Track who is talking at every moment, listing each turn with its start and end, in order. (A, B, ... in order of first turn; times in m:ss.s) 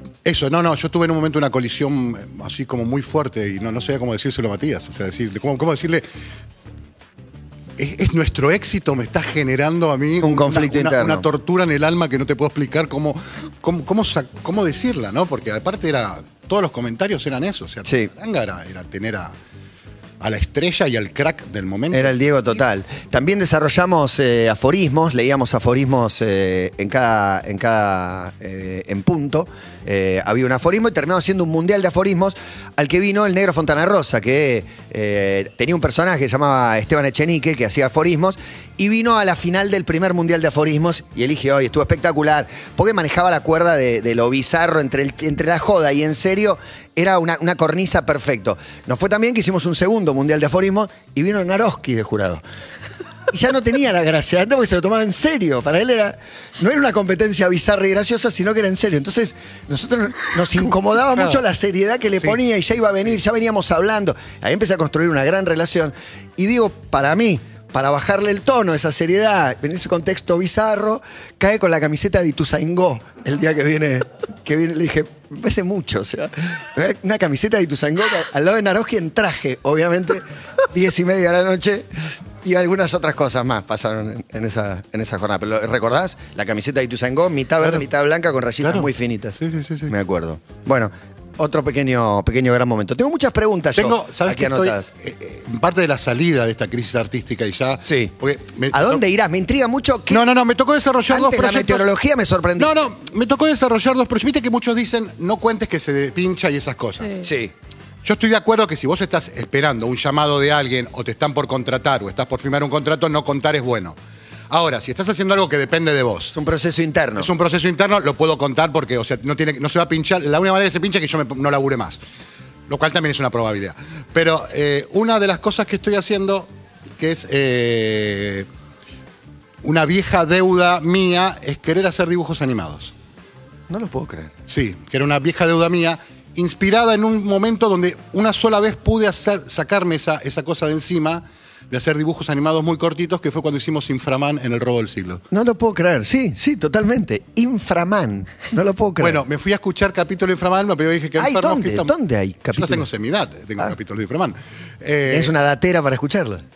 0:00.2-0:06.0 A
0:07.8-0:19.3 A
0:10.2-0:11.2 B
0:17.8-0:18.1 B
0:20.2-0:22.1 A
0:21.9-0:52.4 B
0:53.3-1:34.9 B
1:28.6-1:29.9 A
1:33.7-1:39.0 A
1:37.8-1:38.1 B
1:38.7-1:40.3 B
1:40.1-1:41.9 A
1:41.1-1:42.8 B
1:42.6-1:47.2 A
1:47.2-1:47.5 B
1:48.0-1:54.0 A
1:54.5-1:56.3 A
1:56.3-1:57.3 B
1:57.2-2:02.0 A
2:02.7-2:06.5 A
2:07.0-2:08.4 A
2:09.6-2:12.9 A
2:13.7-2:14.3 B
2:14.5-2:25.2 A
2:25.3-2:29.2 B
2:29.0-2:31.9 A
2:31.2-2:32.8 B
2:32.5-2:35.3 A
2:35.1-2:36.4 B